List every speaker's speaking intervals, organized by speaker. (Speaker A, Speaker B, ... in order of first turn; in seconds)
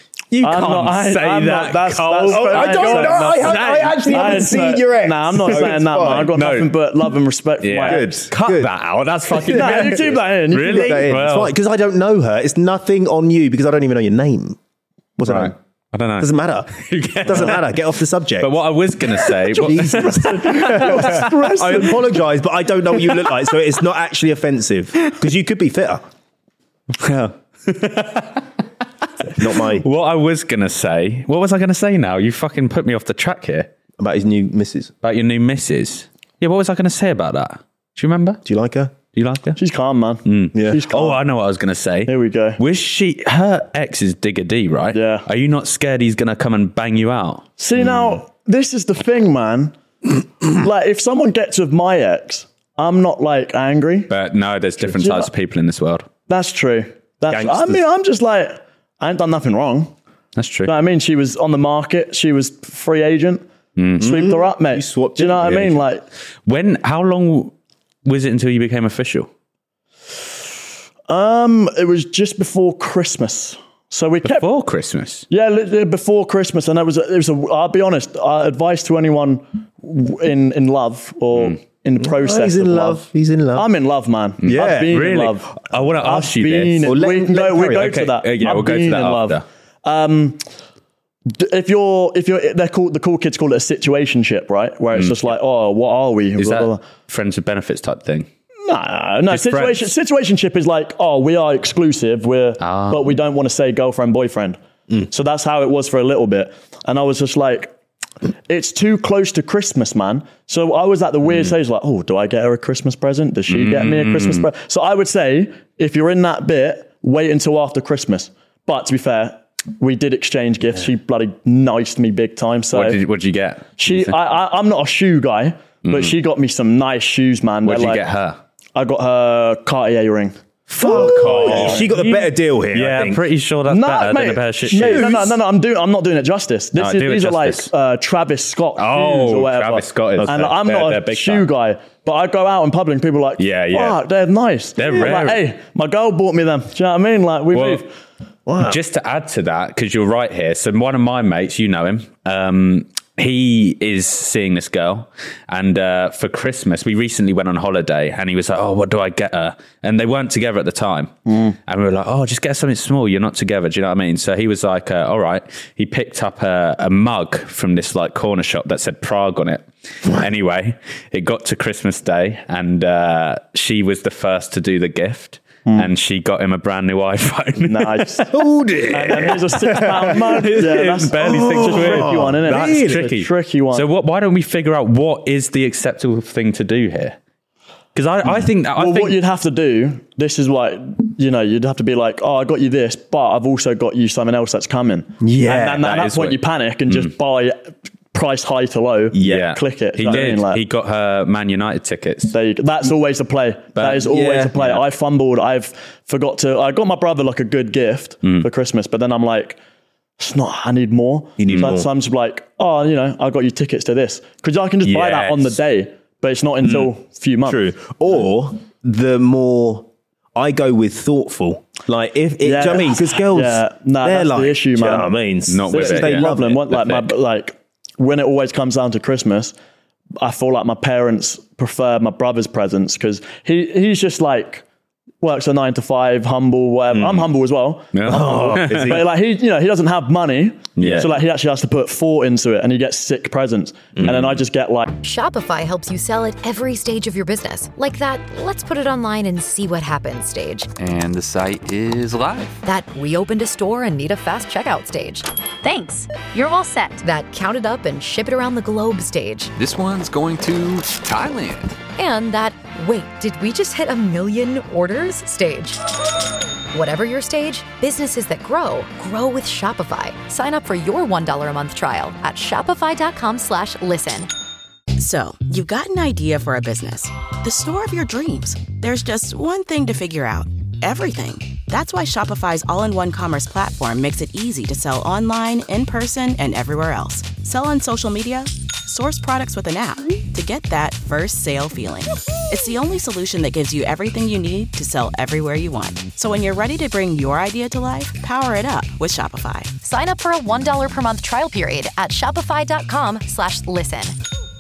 Speaker A: 0.3-4.5, 6.3-6.7, 7.6-11.5, 15.2-17.8, 18.4-21.3, 26.9-28.5, 29.4-33.7, 35.0-38.4, 39.1-39.6, 40.2-47.5, 54.1-56.1, 60.4-60.7, 63.8-64.2, 66.5-67.5, 68.0-69.3, 74.2-75.3, 84.4-86.9, 87.7-89.4, 94.9-95.3, 96.4-98.3, 99.3-99.9, 102.6-103.2, 113.5-114.5, 122.7-124.2, 125.8-126.2, 127.6-128.4, 130.8-135.1, 136.8-137.7, 138.8-141.5, 143.4-144.0, 144.8-145.4, 147.5-147.8, 148.6-178.3, 180.4-187.2, 187.9-189.2, 195.9-196.3, 199.2-202.3, 203.8-204.1, 211.5-211.8, 214.9-215.5, 225.5-227.1, 237.9-239.0, 240.8-241.1
Speaker B: 0.4-8.2, 9.5-11.1, 19.5-22.0, 39.6-41.2, 42.1-42.6, 44.9-45.2, 47.6-49.7, 50.5-54.1, 54.8-55.3, 56.3-59.9, 60.6-63.4, 64.0-66.0, 71.1-74.5, 75.3-90.4, 91.3-96.8, 98.7-107.7, 108.5-123.0, 123.8-128.0, 128.8-131.9, 133.7-147.9, 161.3-161.6, 177.6-178.3, 178.9-183.9, 188.8-200.6, 202.3-209.6, 210.2-217.6, 222.4-229.6, 230.2-234.6, 235.2-244.9
Speaker C: 2.3-6.3, 7.8-8.7, 9.5-9.9, 10.6-14.6, 15.2-15.6, 16.2-18.6, 19.5-26.0, 29.2-29.9, 34.0-34.9, 38.5-39.0, 40.5-40.8, 57.3-57.8, 64.0-65.8, 82.0-83.7, 84.4-84.9, 86.8-88.0, 130.7-133.2, 134.7-135.4, 140.2-140.5, 148.5-148.8, 178.3-183.1, 195.2-196.1, 199.1-199.5, 204.0-204.6, 211.4-211.9, 216.6-216.9, 217.4-226.6, 236.9-237.2, 238.1-239.1, 244.0-244.2
Speaker D: 245.0-250.7, 252.6-259.5, 262.0-265.8, 266.7-274.3, 299.8-304.2
Speaker E: 250.8-252.6, 259.6-261.8
Speaker F: 274.9-299.7